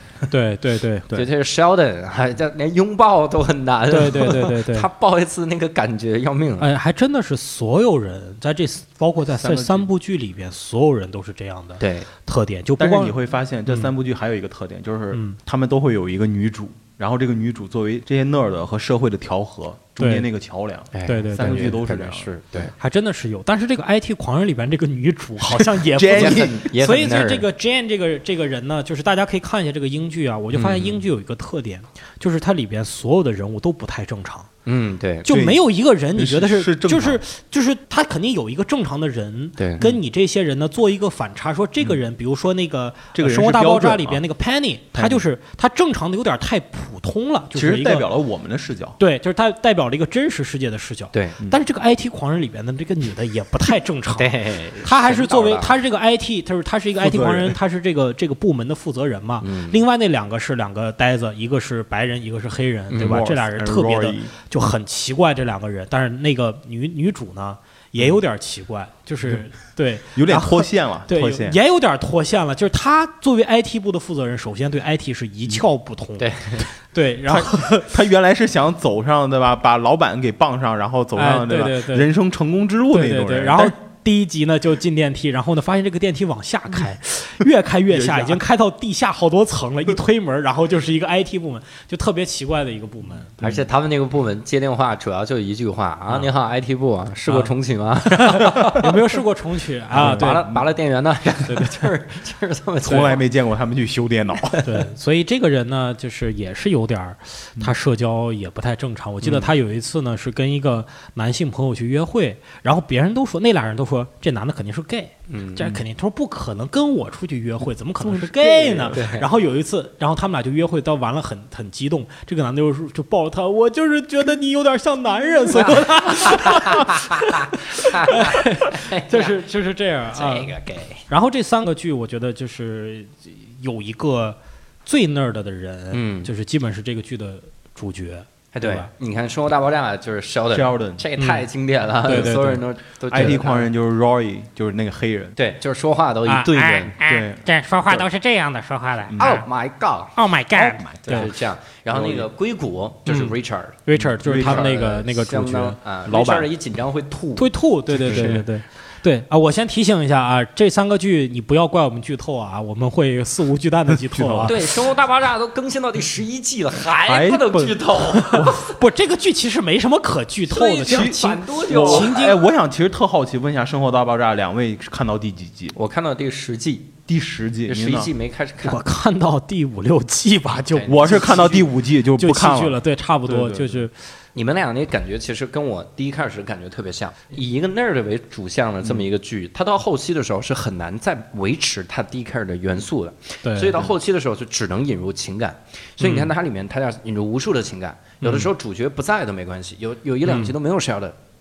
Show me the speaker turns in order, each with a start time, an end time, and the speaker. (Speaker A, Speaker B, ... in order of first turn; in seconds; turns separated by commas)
Speaker A: 0.3-1.2, Speaker B: 1.1-6.7, Speaker A: 3.9-4.9, Speaker A: 6.6-13.1, Speaker C: 9.3-9.9, Speaker B: 11.8-12.1, Speaker C: 12.8-22.3, Speaker A: 13.7-13.9, Speaker A: 15.1-15.4, Speaker A: 20.0-20.3, Speaker B: 20.9-22.7, Speaker A: 21.1-21.8, Speaker A: 22.8-34.5, Speaker C: 25.7-26.7, Speaker B: 26.1-27.4, Speaker B: 30.5-31.0, Speaker B: 34.6-35.3, Speaker A: 35.2-48.1, Speaker C: 35.3-35.6, Speaker C: 36.1-37.2, Speaker B: 39.6-39.9, Speaker C: 43.1-44.2, Speaker C: 44.9-45.2, Speaker C: 47.5-49.0, Speaker A: 49.0-77.9, Speaker B: 54.1-55.8, Speaker C: 57.0-57.6, Speaker B: 59.4-59.8, Speaker B: 62.9-63.2, Speaker C: 62.9-64.3, Speaker C: 70.1-71.6, Speaker B: 76.2-76.7, Speaker C: 77.3-83.8, Speaker A: 81.2-82.1, Speaker A: 82.9-93.4, Speaker C: 87.9-88.4, Speaker B: 93.4-99.0, Speaker C: 93.4-93.7, Speaker A: 97.3-97.5, Speaker A: 98.1-100.4, Speaker C: 99.9-100.6, Speaker B: 99.9-103.2, Speaker A: 101.5-101.8, Speaker C: 102.8-104.7, Speaker A: 104.6-130.5, Speaker B: 109.2-109.5, Speaker B: 115.3-115.8, Speaker C: 118.0-119.0, Speaker B: 118.9-119.2, Speaker B: 125.5-129.4, Speaker B: 130.1-131.1, Speaker A: 131.1-138.9, Speaker B: 135.9-136.3, Speaker B: 138.5-143.7, Speaker C: 140.5-141.1, Speaker A: 141.2-141.4, Speaker A: 142.0-142.6, Speaker C: 143.1-145.3, Speaker B: 145.4-146.9, Speaker A: 146.3-149.4, Speaker C: 147.0-148.1, Speaker C: 149.1-149.4, Speaker B: 149.2-150.2, Speaker A: 150.1-151.3, Speaker C: 150.6-151.3, Speaker B: 151.1-158.4, Speaker C: 151.9-152.3, Speaker A: 153.1-153.3, Speaker A: 153.8-155.8, Speaker C: 153.9-154.7, Speaker C: 156.1-156.5, Speaker A: 157.4-164.5, Speaker C: 157.9-158.4, Speaker C: 163.9-164.7, Speaker B: 164.4-168.8, Speaker C: 167.0-168.6, Speaker A: 168.1-172.4, Speaker B: 170.5-172.2, Speaker C: 170.8-175.8, Speaker B: 175.7-176.9, Speaker C: 177.1-178.1, Speaker B: 177.7-178.8, Speaker A: 178.6-183.9, Speaker B: 180.6-181.6, Speaker C: 180.9-183.8, Speaker B: 184.3-201.2, Speaker A: 193.4-193.8, Speaker A: 196.0-196.3, Speaker A: 198.2-198.5, Speaker A: 200.2-200.5